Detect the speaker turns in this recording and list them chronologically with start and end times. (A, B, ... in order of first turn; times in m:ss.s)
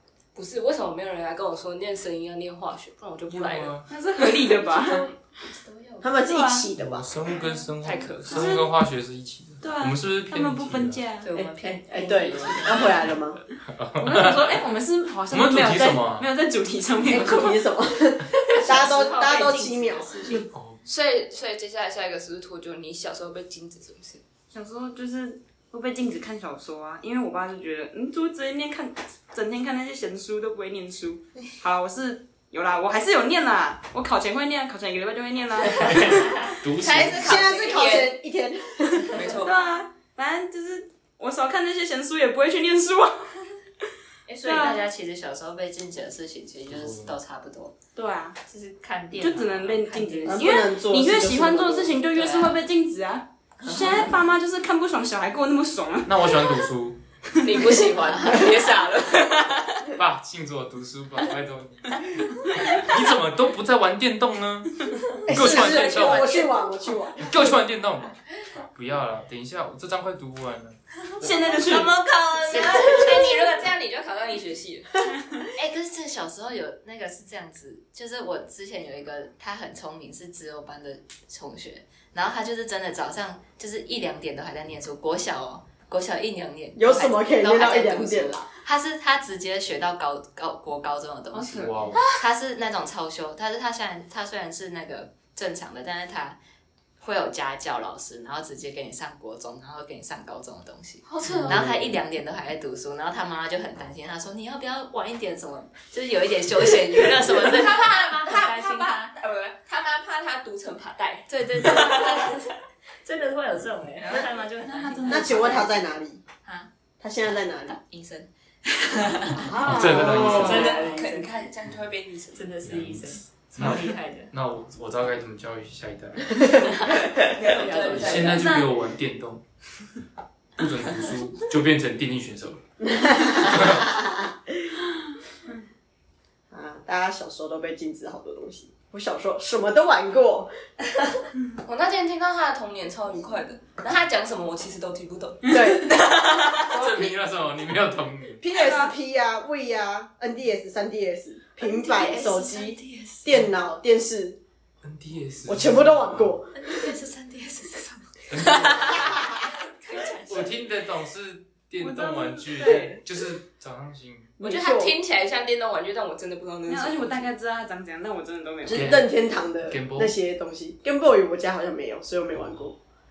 0:00.3-0:06.1 A
0:03.3-0:03.9 B
0:03.9-0:05.1 C
0:06.0-0:07.1 D
0:06.2-0:06.7 C
0:06.8-0:11.0 B
0:07.8-0:08.5 A
0:08.2-0:08.7 C
0:09.6-0:11.3 C
0:11.2-0:13.1 E
0:11.3-0:13.4 D
0:13.6-0:14.6 B
0:14.0-0:17.6 C
0:15.3-0:16.3 B
0:17.0-0:20.4 D
0:18.5-0:20.5 E
0:18.7-0:19.7 C
0:20.5-0:20.8 B
0:20.8-0:24.2 A
0:24.5-0:36.4 C
0:35.8-0:37.4 B
0:36.8-0:38.2 A
0:37.0-0:39.4 D
0:39.1-0:39.5 A
0:39.4-0:43.4 C
0:44.3-0:47.8 E
0:44.4-0:44.8 C
0:46.7-0:47.1 B
0:47.9-0:48.4 C
0:48.4-0:50.6 E
0:49.2-0:56.6 C
0:50.2-0:52.0 D
0:52.1-0:52.6 E
0:53.6-0:54.2 E
0:56.0-0:57.0 B
0:57.4-0:59.9 A
0:57.8-0:58.6 E
0:59.9-1:06.4 B
1:05.2-1:07.4 D
1:05.8-1:06.4 E
1:07.2-1:11.6 B
1:11.2-1:12.0 C
1:11.3-1:13.6 E
1:11.7-1:15.0 A
1:15.5-1:36.4 E
1:26.8-1:28.4 D
1:31.3-1:31.8 C
1:31.6-1:32.0 B
1:37.0-1:49.1 E
1:41.1-1:41.6 A
1:41.2-1:42.0 B
1:47.2-1:52.4 A
1:51.3-1:55.8 E
1:54.6-1:55.7 C
1:55.0-1:56.2 D
1:56.4-1:56.7 E
1:57.0-1:57.8 D
1:57.7-2:01.3 E
1:59.4-2:00.5 D
1:59.5-2:00.8 B
1:59.5-2:01.0 C
2:00.1-2:02.5 A
2:02.3-2:04.3 E
2:02.6-2:06.5 B
2:06.9-2:08.4 A
2:07.0-2:08.4 E
2:07.9-2:09.4 B
2:08.2-2:08.8 C
2:10.6-2:12.6 B
2:12.8-2:14.7 D
2:13.4-2:13.9 B
2:16.5-2:20.5 D
2:21.6-2:26.8 A
2:25.5-2:26.0 D
2:26.7-2:28.4 B
2:28.4-2:34.4 D
2:28.5-2:28.9 C
2:31.6-2:33.4 E
2:34.8-2:36.4 B
2:35.4-2:36.9 D
2:36.6-2:40.5 E
2:38.3-2:39.3 B
2:40.3-2:44.3 B
2:41.8-2:43.0 C
2:44.4-2:45.0 D
2:44.4-2:47.3 A
2:46.6-2:49.0 C
2:48.6-2:52.8 D
2:48.7-2:49.1 B
2:49.6-2:50.1 B